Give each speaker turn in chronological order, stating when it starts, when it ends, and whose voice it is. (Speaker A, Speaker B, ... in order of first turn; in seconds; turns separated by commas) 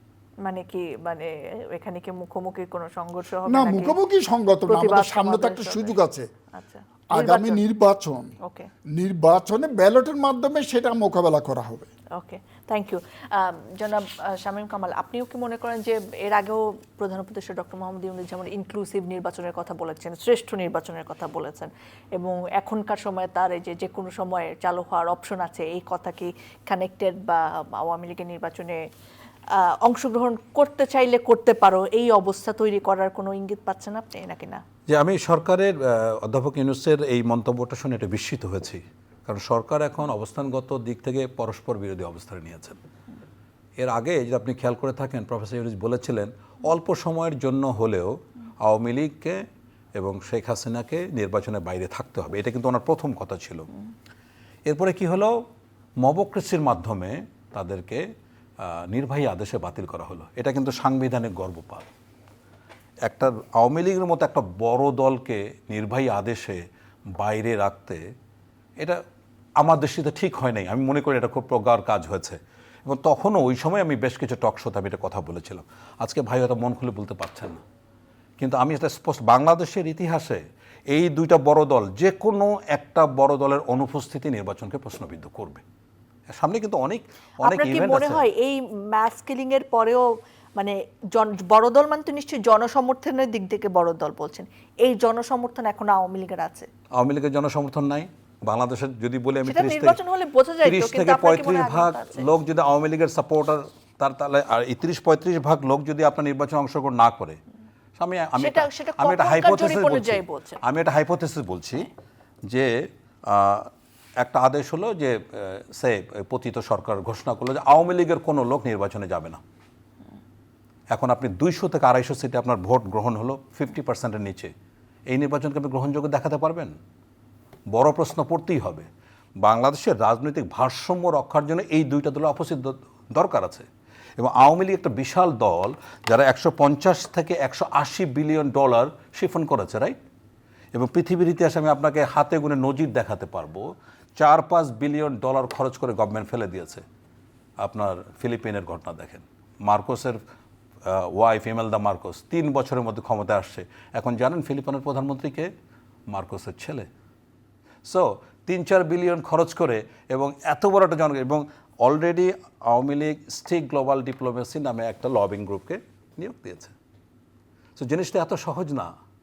Speaker A: 0.5-4.0, Speaker B: 3.5-6.3, Speaker A: 4.7-6.0, Speaker A: 6.5-7.6, Speaker B: 7.1-8.3, Speaker A: 8.4-8.7, Speaker B: 8.9-11.9, Speaker A: 12.2-28.8, Speaker A: 29.5-34.6, Speaker C: 34.9-42.8, Speaker C: 43.8-49.4, Speaker C: 50.0-53.7, Speaker C: 54.7-55.4, Speaker C: 56.0-58.0, Speaker C: 58.6-61.9, Speaker C: 63.1-66.6, Speaker C: 67.2-68.0, Speaker C: 69.6-77.6, Speaker C: 78.4-85.6, Speaker C: 86.3-88.2, Speaker A: 87.4-96.7, Speaker C: 97.0-100.0, Speaker A: 99.5-102.3, Speaker C: 100.6-107.4, Speaker C: 108.0-111.9, Speaker A: 108.4-110.6, Speaker C: 112.5-119.4, Speaker C: 120.9-124.5, Speaker C: 125.1-126.8, Speaker C: 127.7-128.9, Speaker C: 129.4-140.0, Speaker C: 140.7-143.7, Speaker C: 144.2-146.8, Speaker C: 147.6-150.2, Speaker C: 150.8-155.5, Speaker C: 156.1-156.9, Speaker C: 157.8-166.7, Speaker C: 167.8-168.9